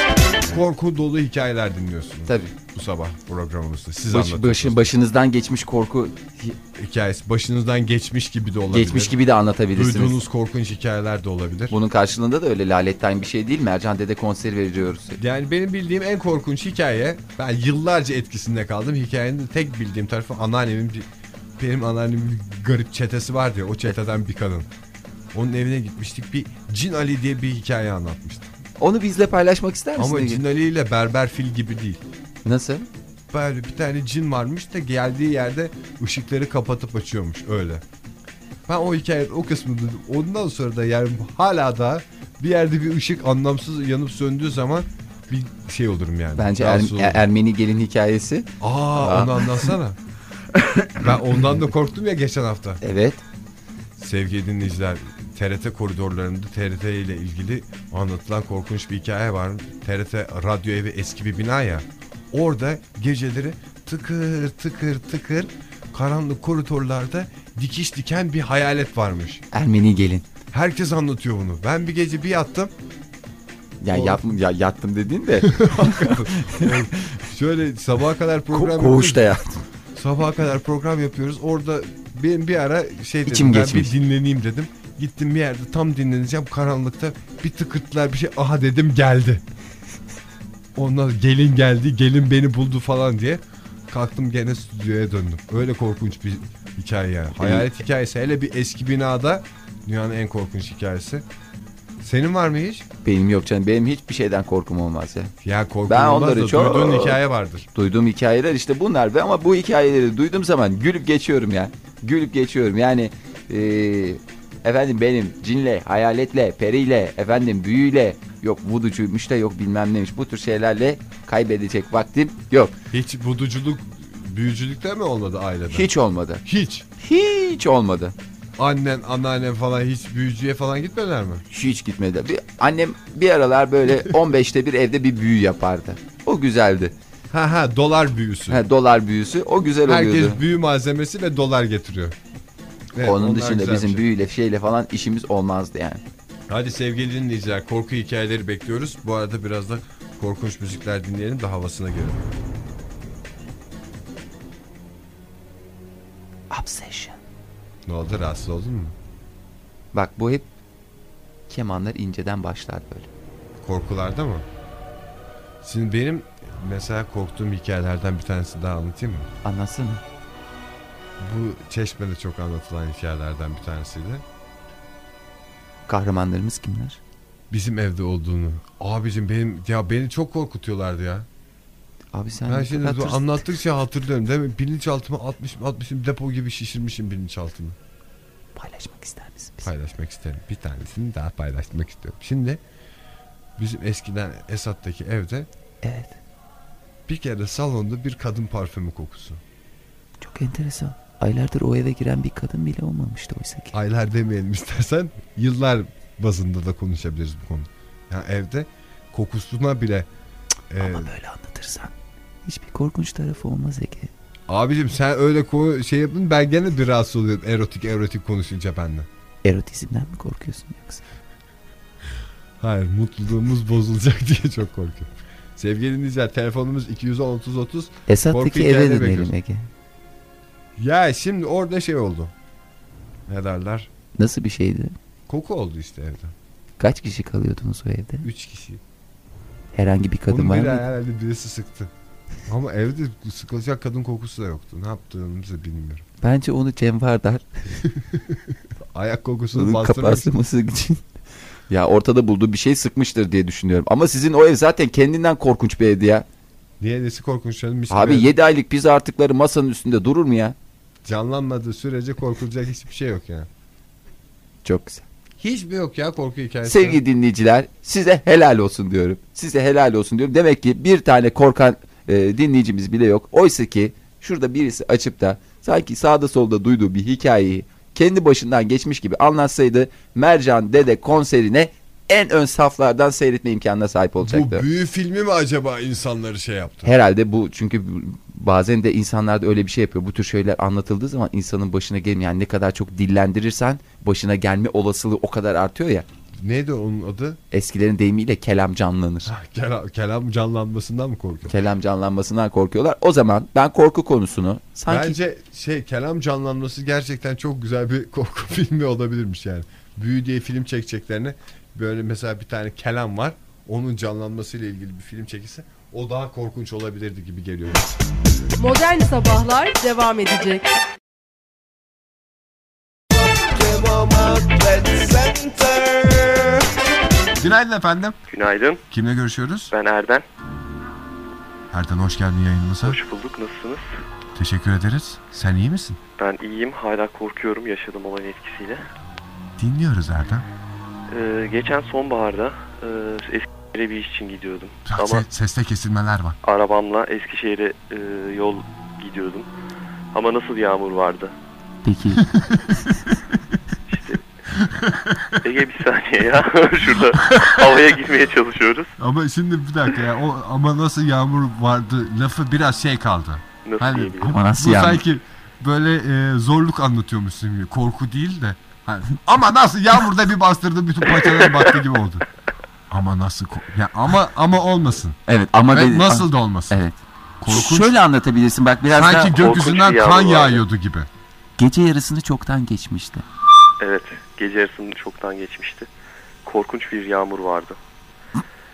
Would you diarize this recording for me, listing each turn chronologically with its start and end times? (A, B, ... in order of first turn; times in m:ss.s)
0:00.4-0:04.9 A
0:02.3-0:02.5 B
0:04.1-0:06.6 B
0:06.8-0:09.1 A
0:08.7-0:10.2 B
0:09.7-0:11.8 A
0:11.7-0:15.2 B
0:15.2-0:21.1 A
0:21.6-0:24.7 A
0:25.3-0:28.5 A
0:28.8-0:30.4 B
0:30.0-0:32.0 A
0:32.4-0:32.9 B
0:33.3-0:37.8 A
0:38.7-0:47.2 A
0:46.4-0:49.7 B
0:48.6-0:50.0 A
0:50.9-0:52.8 A
0:52.8-0:53.2 B
0:54.0-1:09.4 A
1:09.5-1:10.2 B
1:10.5-1:12.7 A
1:13.8-1:17.2 B
1:13.9-1:14.4 A
1:15.4-1:19.3 A
1:18.5-1:19.6 B
1:19.9-1:29.4 A
1:23.2-1:23.9 B
1:30.7-1:41.2 A
1:37.4-1:37.7 B
1:42.0-1:42.8 A
1:43.0-1:45.3 B
1:45.4-1:47.7 A
1:45.9-1:47.2 B
1:47.7-2:02.8 B
2:02.9-2:05.9 A
2:05.7-2:06.4 B
2:06.4-2:06.8 A
2:07.0-2:08.1 B
2:08.6-2:11.4 A
2:11.5-2:16.9 B
2:17.3-2:18.6 A
2:18.5-2:20.4 B
2:19.8-2:22.2 A
2:22.9-2:24.0 A
2:23.0-2:26.0 B
2:26.5-2:32.2 A
2:36.5-2:37.2 B
2:37.8-2:38.9 A
2:39.9-2:40.5 B
2:41.5-2:43.1 B
2:43.6-2:44.4 A
2:45.6-2:49.3 A
2:49.4-2:50.0 B
2:51.2-2:54.2 A
2:55.9-2:57.0 B
2:57.5-3:01.3 A
3:02.1-3:03.5 B
3:02.5-3:07.8 A
3:08.5-3:09.7 B
3:09.6-3:12.6 A
3:13.6-3:15.5 A
3:15.8-3:16.2 B
3:17.1-3:19.4 A
3:20.2-3:23.8 B
3:23.7-3:30.1 A
3:30.7-3:31.1 A
3:30.8-3:31.9 B
3:32.4-3:34.1 B
3:34.5-3:39.1 A
3:39.4-3:41.0 B
3:42.6-3:49.3 A
3:48.1-3:49.7 B
3:50.8-3:52.3 A
3:53.3-3:53.9 A
3:54.2-3:54.9 B
3:55.3-3:56.3 A
3:56.8-3:58.3 B
3:58.2-3:58.8 A
3:59.7-4:00.8 B
4:00.3-4:01.9 A
4:02.5-4:06.0 A
4:06.2-4:07.4 B
4:07.9-4:08.4 A
4:08.9-4:10.3 A
4:09.5-4:11.0 B
4:11.7-4:16.2 B
4:16.8-4:18.3 A
4:17.9-4:20.6 B
4:21.0-4:23.5 A
4:24.6-4:25.0 B
4:25.4-4:27.0 A
4:26.6-4:44.6 B
4:44.2-4:46.9 A
4:46.8-4:56.0 B
4:56.4-4:57.4 A
4:57.5-4:59.3 B
4:59.2-5:01.5 A
5:01.5-5:05.2 B
5:04.9-5:17.9 A
5:18.6-5:20.7 C
5:27.4-5:28.2 A
5:28.3-5:28.8 D
5:28.9-5:29.7 A
5:29.7-5:30.2 D
5:31.7-5:33.0 A
5:32.8-5:33.9 D
5:34.4-5:36.0 A
5:36.2-5:38.8 D
5:39.6-5:40.4 A
5:41.1-5:45.2 D
5:44.9-5:46.4 A
5:46.4-5:49.5 D
5:50.1-5:51.3 D
5:51.8-5:52.3 B
5:52.2-5:52.8 A
5:53.9-5:54.2 D
5:54.5-5:55.4 A
5:55.4-5:58.9 D
5:57.2-5:57.8 A
5:59.0-6:12.2 A
6:03.6-6:04.4 D
6:04.2-6:05.0 B
6:11.2-6:11.5 D
6:12.9-6:16.8 A
6:15.3-6:19.4 B
6:17.4-6:18.0 A
6:18.9-6:21.1 A
6:19.3-6:20.6 D
6:21.6-6:23.2 B
6:23.8-6:25.9 D
6:26.4-6:27.8 D